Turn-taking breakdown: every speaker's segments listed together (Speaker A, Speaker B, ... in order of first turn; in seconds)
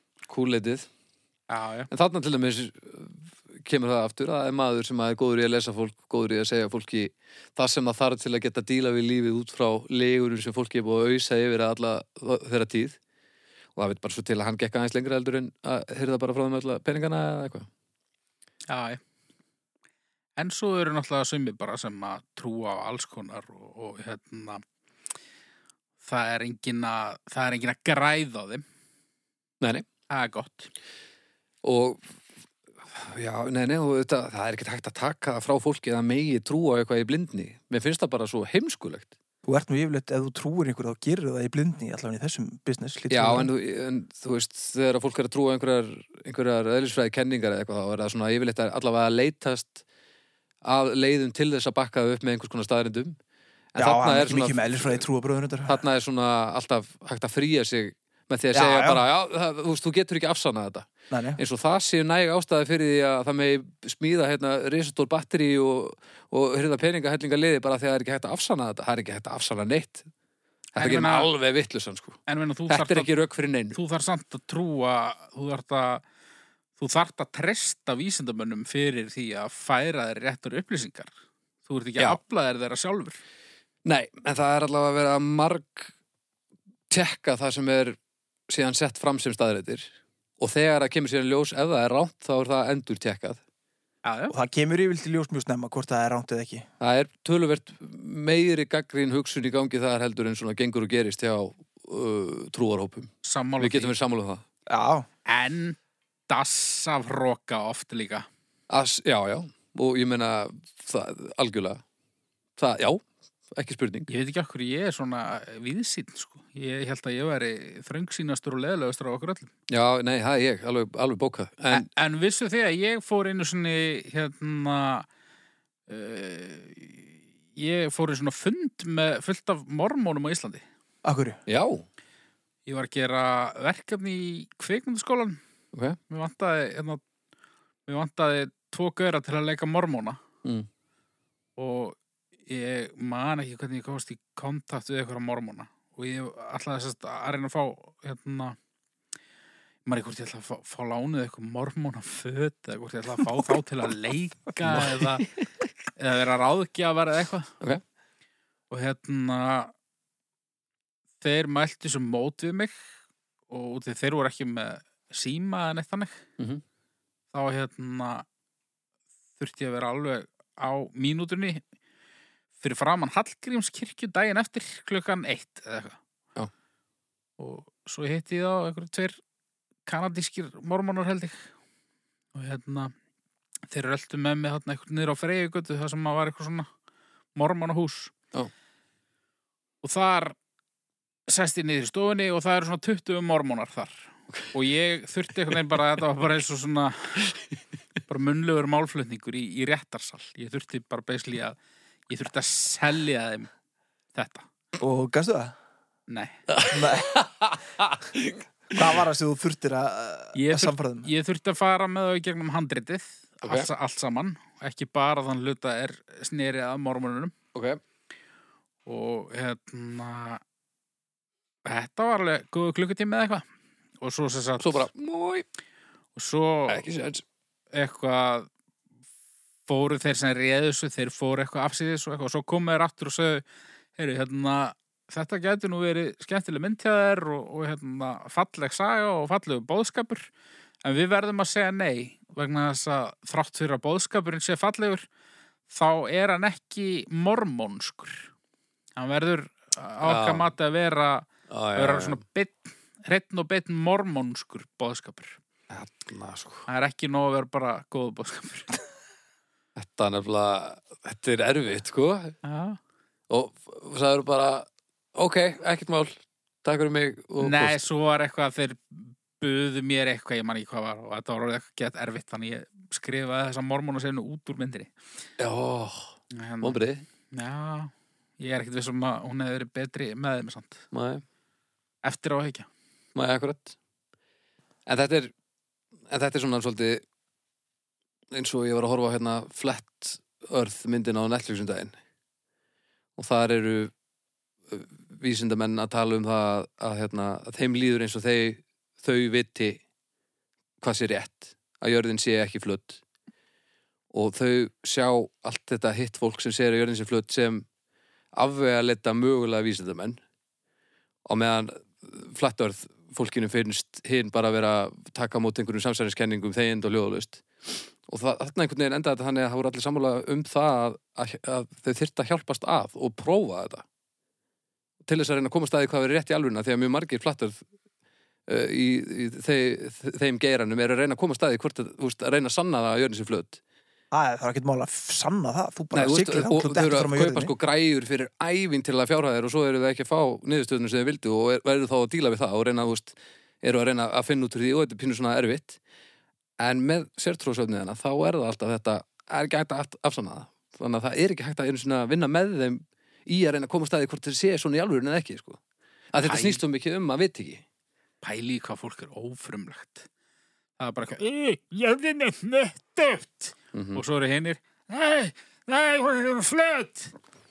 Speaker A: 0.3-0.9, 1.9-13.0, 13.8-17.7, 31.6-32.0, 32.8-39.1, 43.1-49.8, 50.6-53.2, 53.7-55.0, 55.6-70.1, 70.8-73.8, 83.8-85.9, 86.9-88.0, 88.5-93.4, 96.8-104.4, 108.7-111.8, 112.6-113.0, 113.5-114.1, 119.7-121.9, 131.4-131.8, 135.7-136.0, 154.7-155.2, 206.5-208.8, 213.4-213.7, 217.5-217.8, 224.6-225.4, 226.7-227.2, 250.0-250.5, 251.5-252.2, 255.7-256.6, 259.8-262.4, 263.3-267.8, 275.4-277.0, 280.9-281.2, 283.1-283.7, 284.9-285.3, 286.1-287.0, 288.3-291.9, 293.2-293.9, 294.7-299.8, 300.8-303.0, 304.1-307.6, 308.3-310.2, 311.2-323.8, 325.0-327.6, 328.5-333.6, 335.9-345.8, 346.6-355.6, 356.1-357.6, 363.7-364.0
Speaker B: 1.5-1.9, 18.7-19.0, 20.4-24.6, 26.0-28.6, 30.1-30.7, 70.7-71.3, 72.3-73.1, 73.7-76.0, 76.8-81.1, 81.7-83.2, 94.0-94.3, 103.2-103.9, 105.2-105.8, 106.3-108.3, 114.1-119.5, 121.7-125.1, 125.9-130.6, 132.7-135.4, 136.1-137.0, 137.9-140.2, 141.6-148.6, 149.8-155.3, 156.0-157.5, 158.7-159.7, 161.2-162.8, 163.5-166.2, 167.3-168.2, 169.4-171.6, 172.6-176.0, 177.4-179.2, 179.8-181.5, 182.3-182.9, 183.7-186.7, 187.3-188.1, 189.8-190.3, 191.3-197.3, 198.1-201.6, 202.1-203.5, 204.1-204.5, 206.1-206.4, 210.3-217.3, 218.8-220.4, 221.6-223.4, 224.0-224.9, 226.2-226.8, 227.7-228.5, 229.7-233.4, 234.0-240.3, 240.8-245.1, 245.7-248.2, 248.9-255.4, 256.7-258.8, 262.4-262.8, 267.4-274.9, 276.3-280.8, 282.0-282.7, 356.2-356.6, 358.2-360.1, 360.8-367.1
Speaker C: 39.4-43.5, 53.8-55.8, 58.5-59.0, 61.1-61.4, 94.3-96.7, 104.7-105.1, 131.0-131.4, 204.8-205.5, 206.7-207.2, 208.7-211.1, 334.1-337.5